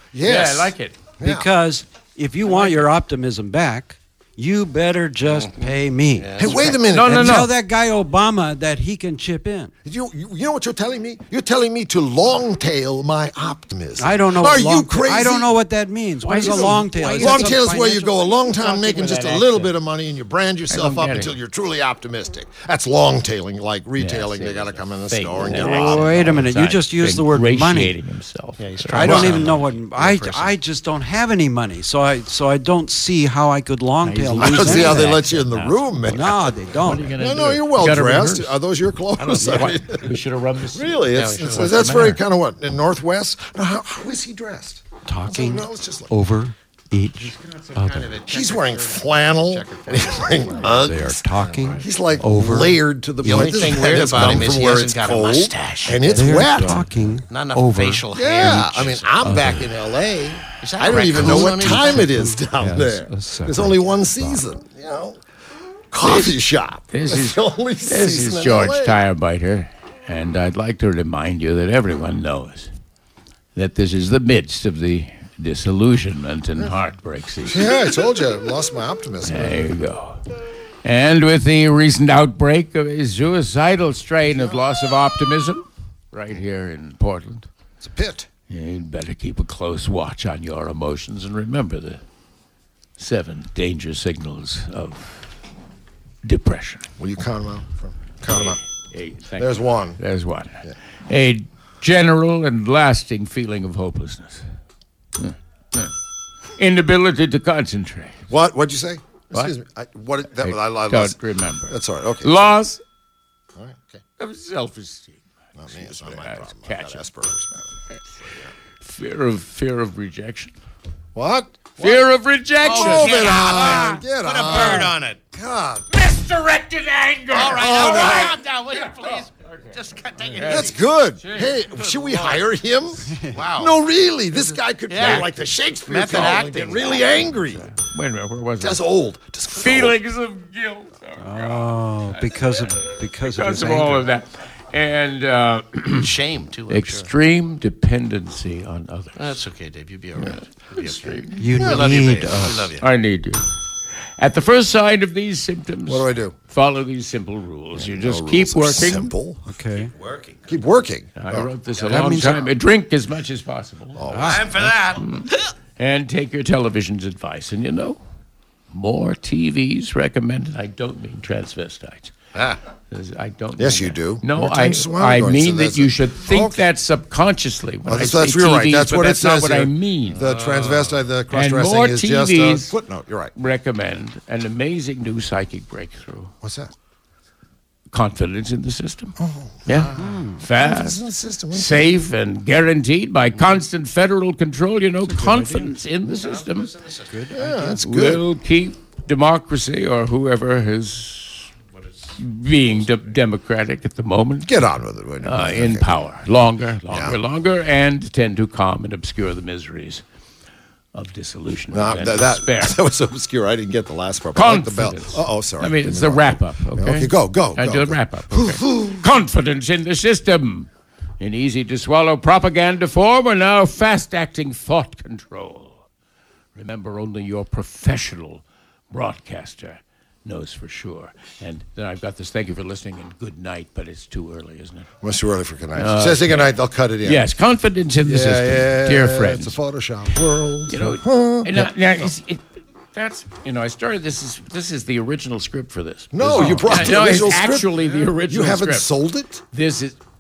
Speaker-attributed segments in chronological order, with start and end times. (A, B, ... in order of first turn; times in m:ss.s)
0:00.1-0:01.5 A
0:00.2-0:01.0 B
0:01.2-0:09.7 C
0:02.5-0:02.8 B
0:05.2-0:06.8 D
0:06.4-0:07.5 A
0:06.9-0:07.5 B
0:09.8-0:15.5 A
0:14.0-0:18.4 C
0:16.2-0:17.6 B
0:16.4-0:26.3 A
0:18.6-0:19.7 B
0:20.7-0:21.4 B
0:24.0-0:29.5 B
0:25.4-0:28.0 C
0:28.6-0:30.6 D
0:28.9-0:35.2 C
0:28.9-0:29.6 A
0:34.0-0:35.8 B
0:34.4-0:36.5 A
0:36.1-0:37.2 C
0:36.8-0:38.6 B
0:37.1-0:40.2 A
0:39.2-0:39.8 D
0:39.4-0:42.2 B
0:40.7-0:46.1 A
0:41.1-0:42.2 D
0:45.0-0:48.1 C
0:47.2-0:50.8 D
0:48.2-0:56.9 A
0:50.6-0:54.5 C
0:53.2-0:59.3 D
0:56.1-0:58.0 C
0:58.1-1:05.2 A
0:59.2-0:59.6 C
1:00.6-1:02.1 D
1:01.2-1:04.4 C
1:05.9-1:09.0 A
1:06.0-1:06.4 B
1:06.9-1:12.7 B
1:13.5-1:17.7 B
1:17.5-1:19.7 A
1:19.2-1:20.2 B
1:20.8-1:27.5 B
1:24.2-1:24.7 A
1:27.8-1:28.3 A
1:28.5-1:32.0 B
1:33.0-1:35.3 B
1:36.2-1:36.9 B
1:37.0-1:38.6 A
1:38.3-1:44.4 B
1:39.4-1:40.0 A
1:45.2-1:45.9 B
1:46.6-1:48.2 B
1:48.3-1:51.2 A
1:50.4-1:52.8 B
1:51.7-1:52.6 A
1:54.2-1:57.0 B
1:55.6-1:58.5 A
1:58.8-2:00.5 B
2:01.1-2:02.1 A
2:01.8-2:04.8 B
2:02.6-2:05.9 A
2:02.6-2:05.2 D
2:05.9-2:11.6 B
2:07.3-2:10.8 D
2:07.4-2:08.3 A
2:10.4-2:17.7 A
2:11.7-2:12.5 D
2:13.1-2:13.4 C
2:13.3-2:17.3 D
2:17.5-2:18.8 B
2:18.6-2:20.0 A
2:19.5-2:26.1 B
2:21.2-2:24.1 C
2:26.0-2:27.1 D
2:26.7-2:29.3 B
2:29.2-2:32.8 D
2:30.2-2:31.5 B
2:31.4-2:32.7 C
2:31.6-2:32.1 A
2:32.8-2:33.4 B
2:34.2-2:39.1 B
2:35.8-2:36.3 A
2:37.7-2:39.4 A
2:39.4-2:39.9 C
2:39.8-2:40.4 D
2:40.5-2:41.5 A
2:41.2-2:44.0 B
2:41.8-2:42.2 D
2:41.9-2:42.4 C
2:43.9-2:44.8 A
2:44.1-2:44.5 C
2:44.2-2:45.5 D
2:45.0-2:48.0 B
2:48.7-2:52.1 B
2:52.3-2:52.6 D
2:52.9-3:00.2 B
2:53.6-2:56.7 A
2:57.8-3:03.3 A
3:00.1-3:01.0 D
3:01.3-3:02.7 B
3:03.4-3:06.3 B
3:06.4-3:06.7 A
3:07.9-3:09.1 B
3:09.2-3:12.0 A
3:09.6-3:16.7 B
3:10.0-3:10.4 C
3:15.0-3:15.8 C
3:16.0-3:17.1 D
3:17.1-3:17.8 C
3:17.3-3:18.2 A
3:17.8-3:21.5 B
3:22.2-3:24.5 B
3:24.4-3:26.0 A
3:25.2-3:30.0 B
3:26.9-3:27.2 A
3:30.9-3:32.8 B
3:31.7-3:39.1 A
3:34.3-3:45.8 B
3:46.5-3:54.9 B
3:55.0-3:57.2 A
3:55.7-3:59.6 B
3:58.0-4:02.1 A
4:00.7-4:02.4 B
4:02.9-4:08.9 B
4:06.1-4:09.4 A
4:06.3-4:06.7 C
4:09.5-4:10.0 B